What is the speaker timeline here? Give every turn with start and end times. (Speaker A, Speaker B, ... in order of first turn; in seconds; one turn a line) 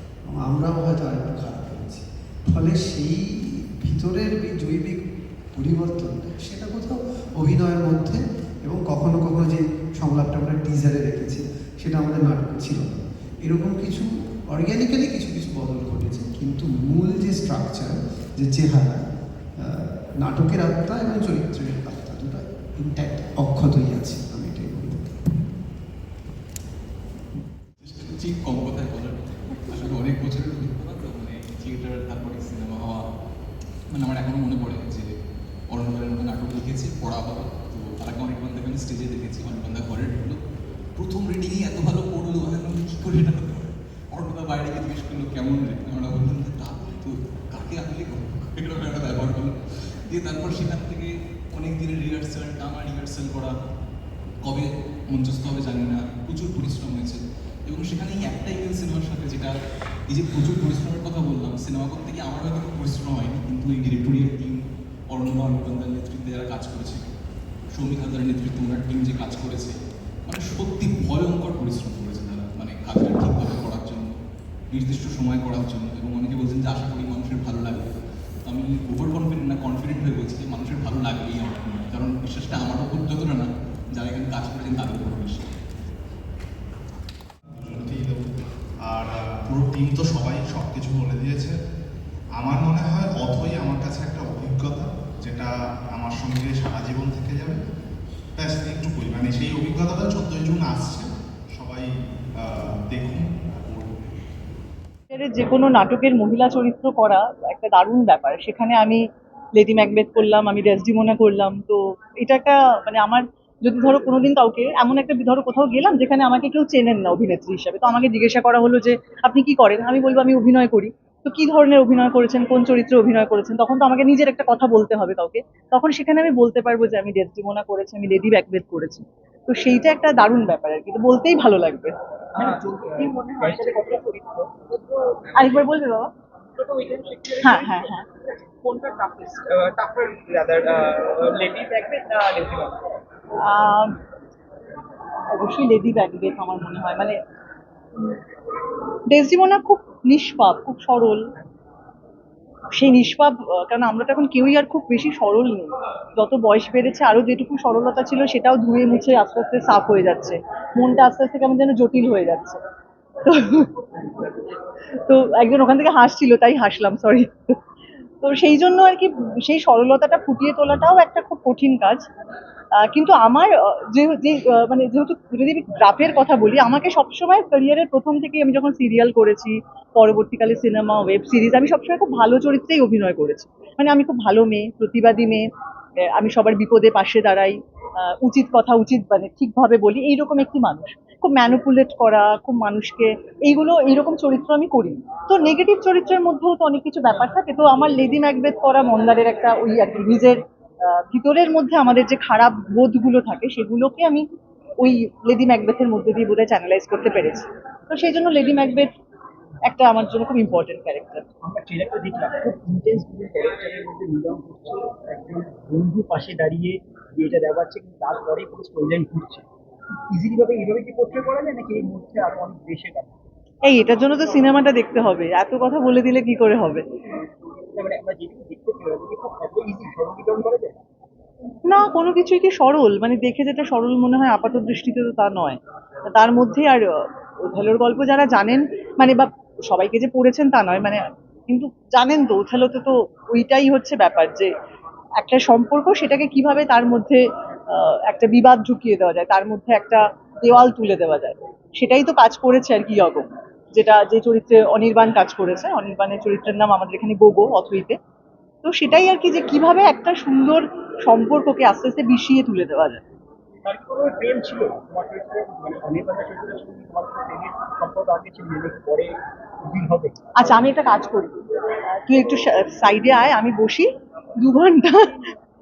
Speaker A: 0.3-5.0
Speaker A: 5.5-19.0
Speaker A: 19.6-25.2
Speaker B: 27.8-33.0
Speaker B: 33.9-35.1
Speaker B: 35.7-40.4
Speaker B: 41.0-49.5
Speaker B: 50.1-53.5
Speaker B: 54.4-59.5
Speaker B: 60.1-64.6
Speaker B: 65.1-67.0
Speaker B: 67.7-74.1
Speaker B: 74.7-77.9
Speaker B: 78.4-85.4
Speaker C: 87.5-88.2
Speaker C: 88.8-91.5
Speaker C: 92.4-97.6
Speaker C: 98.4-103.9
Speaker D: 105.1-109.0
Speaker D: 109.5-133.9
Speaker E: 132.3-135.6
Speaker D: 135.3-136.1
Speaker E: 136.5-142.8
Speaker D: 137.4-138.1
Speaker D: 143.4-144.0
Speaker D: 145.3-147.2
Speaker D: 149.1-151.2
Speaker D: 152.7-162.6
Speaker D: 163.2-163.7
Speaker D: 165.1-167.6
Speaker D: 168.2-172.0
Speaker D: 172.8-185.4
Speaker D: 186.1-204.2
Speaker D: 204.8-208.9
Speaker D: 209.7-211.2
Speaker E: 211.4-219.4
Speaker E: 220.1-223.2
Speaker D: 223.7-226.8
Speaker E: 227.7-230.8
Speaker D: 231.7-244.5
Speaker D: 245.2-258.0
Speaker D: 258.6-263.0
Speaker E: 263.6-270.5
Speaker D: 270.4-271.4
Speaker D: 272.0-273.9
Speaker D: 274.4-275.2